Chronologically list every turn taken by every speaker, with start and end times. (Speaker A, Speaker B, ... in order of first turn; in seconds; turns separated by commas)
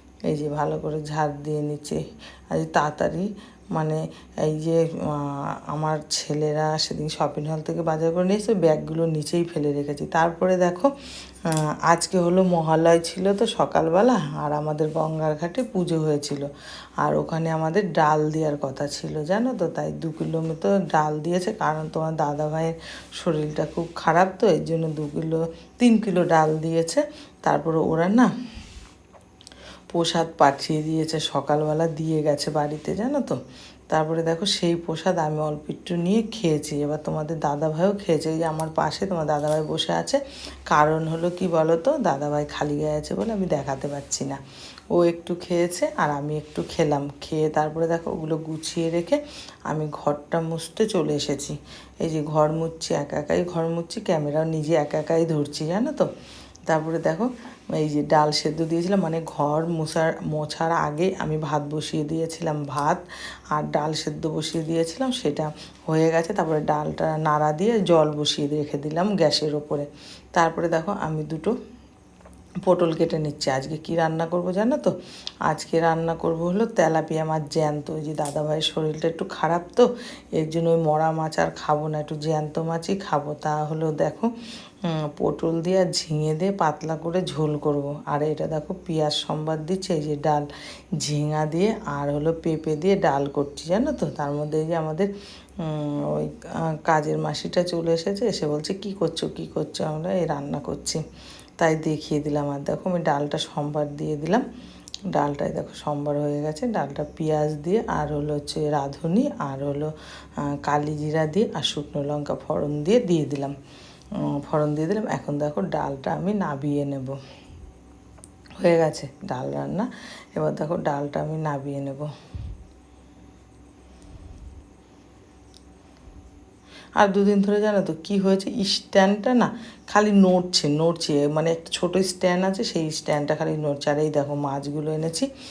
Speaker A: 0.3-10.9, Speaker A: 11.5-16.5, Speaker A: 17.0-28.3, Speaker A: 29.9-44.4, Speaker A: 44.9-56.1, Speaker A: 56.7-71.5, Speaker A: 72.7-74.9, Speaker A: 75.5-84.3, Speaker A: 84.8-90.5, Speaker A: 91.0-101.0, Speaker A: 101.6-104.5, Speaker A: 105.1-109.9, Speaker A: 110.5-113.5, Speaker A: 114.2-117.2, Speaker A: 118.6-122.1, Speaker A: 127.0-135.3